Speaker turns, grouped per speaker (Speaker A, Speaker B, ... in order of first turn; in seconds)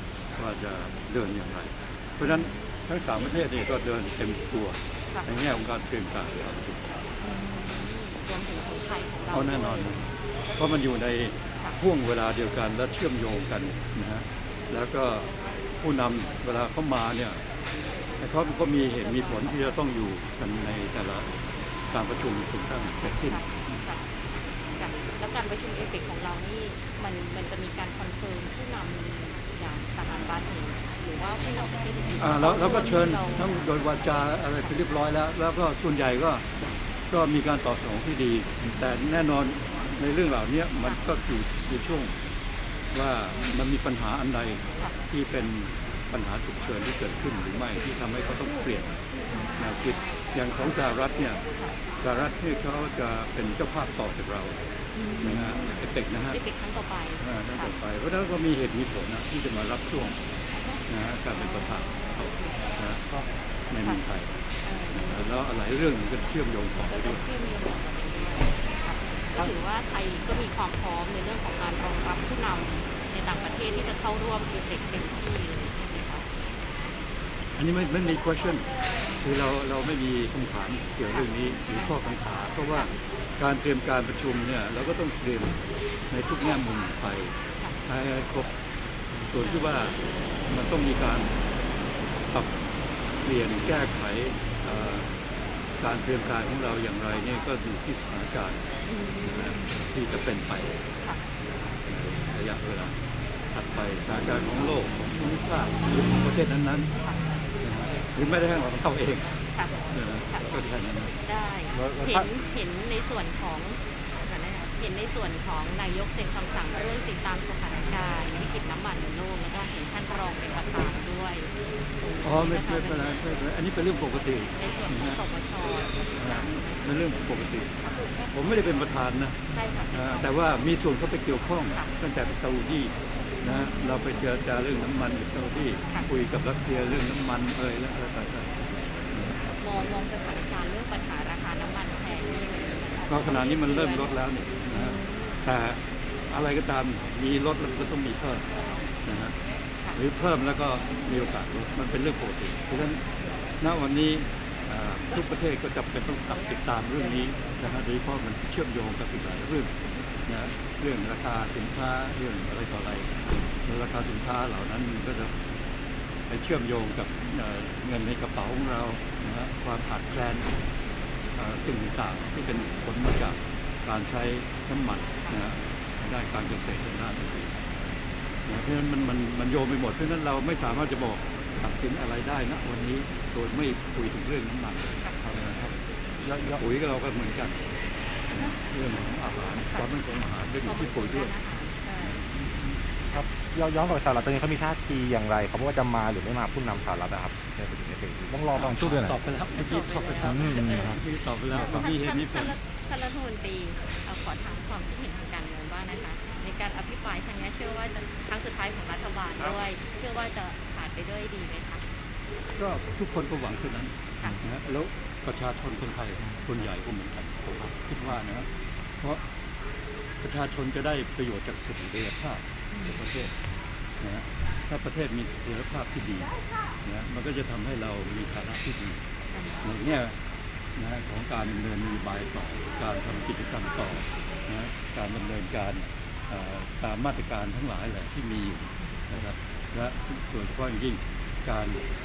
Speaker A: 0.3-6.8, 9.3-17.4, 18.2-21.4, 21.9-23.4, 32.2-36.4, 37.1-42.2, 42.9-49.0, 49.6-51.4, 52.0-54.6, 55.2-56.4, 57.2-60.2, 60.9-63.1, 63.7-64.3, 64.9-67.2, 77.6-78.7, 79.2-85.6, 86.1-87.3, 87.9-88.5, 89.3-91.3, 93.2-95.1, 95.8-98.6, 99.2-100.7, 101.9-103.0, 103.5-106.9, 107.6-109.3, 109.9-111.1, 122.2-125.2, 126.2-127.7, 128.3-129.4, 129.9-139.3, 143.1-148.4, 149.1-149.3, 149.9-153.0, 153.6-159.7, 160.3-163.1, 163.7-165.3, 166.3-170.5, 171.3-177.6, 178.5-185.7, 186.4-187.6, 188.3-191.3, 192.0-192.8, 198.5-202.6, 212.6-218.5, 220.2-223.3, 224.0-226.3, 226.8-229.0, 229.6-230.2, 230.8-241.8
Speaker B: 2.2-2.5, 7.2-9.9, 18.9-19.5, 23.3-24.0, 24.8-33.6, 49.3-50.3, 55.0-57.7, 61.3-62.6, 64.6-65.3, 66.8-76.3, 89.4-89.7, 98.9-99.7, 109.5-110.5, 111.2-123.2, 124.6-127.1, 127.8-128.3, 129.5-130.2, 139.6-144.2, 144.7-145.4, 188.3-188.6, 190.6-192.2, 199.6-201.0, 201.5-211.8, 222.7-223.0, 229.3-229.7
Speaker C: 111.7-112.3, 186.2-186.6, 193.1-199.2, 200.2-201.0, 201.5-201.8